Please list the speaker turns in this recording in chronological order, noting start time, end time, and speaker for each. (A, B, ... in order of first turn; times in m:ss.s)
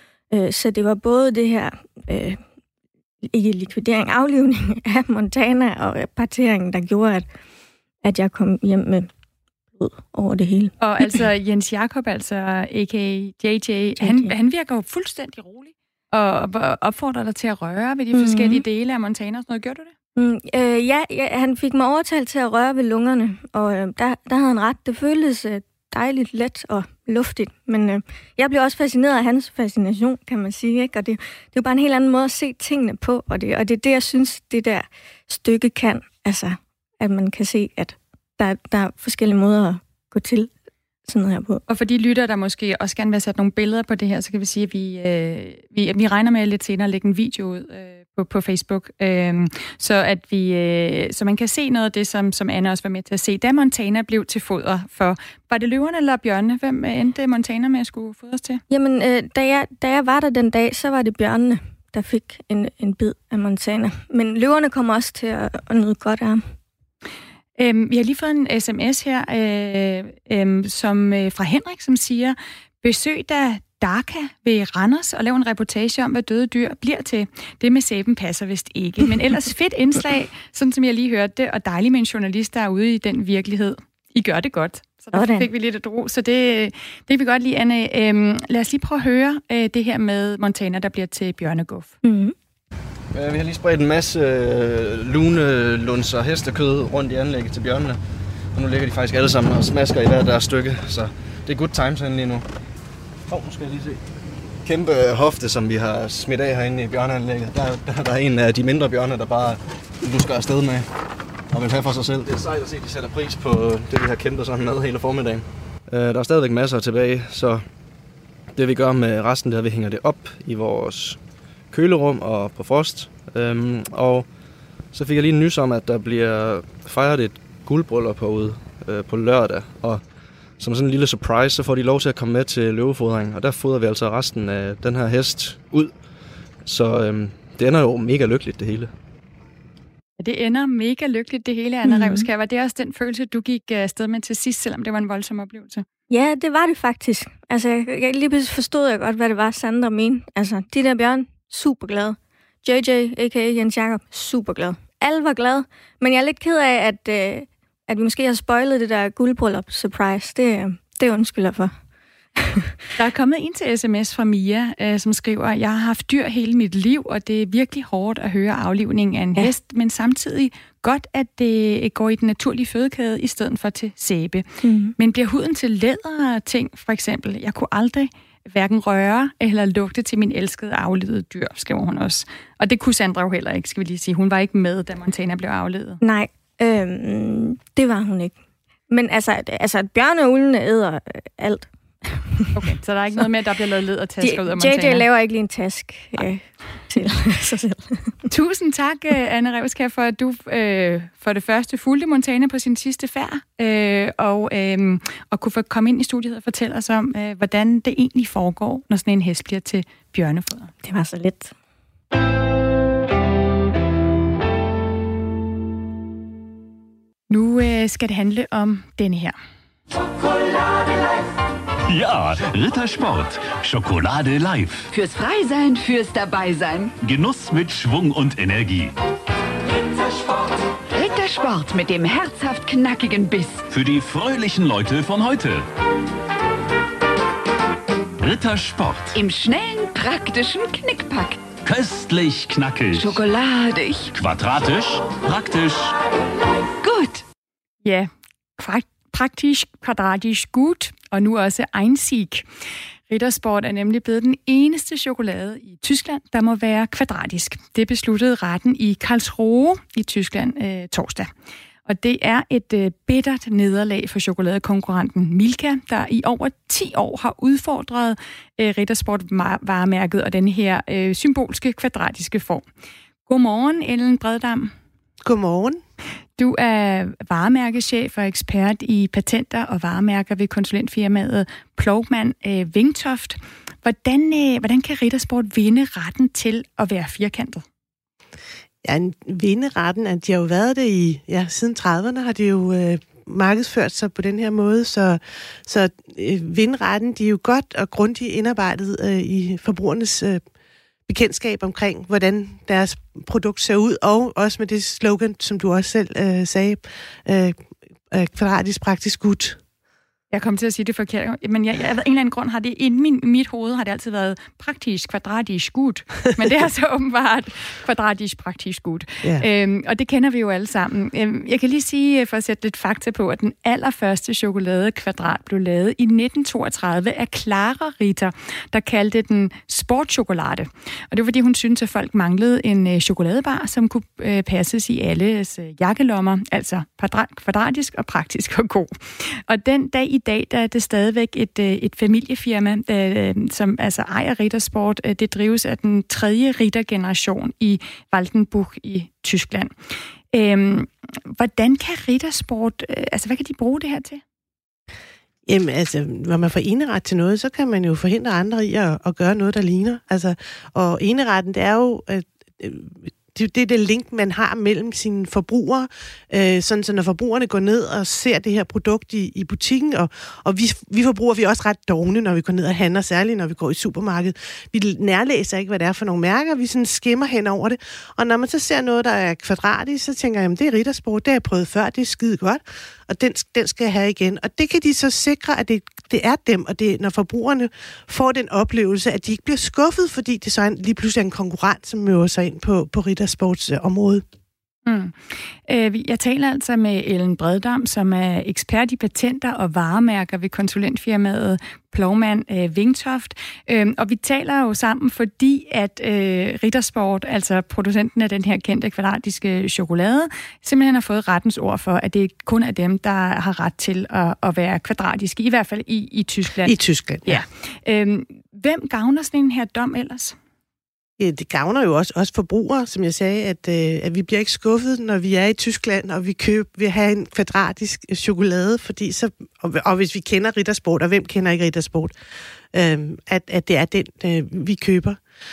0:00.3-0:02.4 A
0:03.3-0:07.2 A
0:08.0-0:09.1 A
0:09.8-0:11.1 A
0:10.8-0:19.9 B
0:14.0-0:14.3 A
0:18.1-0:18.6 A
0:20.2-0:40.5 A
0:41.0-0:41.6 A
0:41.7-0:58.6 B
0:58.7-1:06.4 A
1:07.6-1:31.9 B
1:25.1-1:25.5 A
1:32.0-1:32.3 A
1:33.1-1:38.0 C
1:38.5-1:42.4 C
1:43.3-1:44.0 C
1:44.6-1:50.9 C
1:51.5-1:57.6 C
1:58.5-2:04.3 C
2:04.9-2:10.0 C
2:10.6-2:15.9 C
2:16.6-2:18.9 C
2:20.2-2:25.8 B
2:21.8-2:22.3 A
2:26.1-2:41.7 A
2:42.4-2:42.6 A
2:43.0-2:54.4 B
2:54.6-2:55.0 A
2:55.0-3:06.0 B
3:06.0-3:08.3 A
3:08.9-3:12.4 A
3:12.5-3:15.0 B
3:14.2-3:18.2 A
3:18.3-3:30.7 B
3:30.8-3:31.5 A
3:37.3-3:39.4 B
3:41.9-3:44.8 D
3:44.9-3:46.9 E
3:47.0-3:48.9 D
3:50.9-3:53.6 E
3:53.7-3:55.6 D
3:58.2-3:59.1 D
3:59.1-4:01.4 E
4:01.6-4:03.1 D
4:02.9-4:04.1 E
4:04.2-4:05.9 D
4:06.8-4:07.2 E
4:07.8-4:12.4 B
4:13.1-4:21.3 B
4:21.8-4:32.6 B
4:33.2-4:34.7 B
4:35.2-4:35.8 F
4:36.4-4:47.6 B
4:48.8-5:00.4 F
5:01.1-5:09.6 F
5:10.3-5:49.7 B
5:50.3-5:54.2 B
5:55.4-6:34.2 F
6:34.8-6:35.2 B
6:35.7-7:00.3 B
6:56.6-6:57.4 F
7:01.2-7:12.1 F
7:12.7-7:15.2 F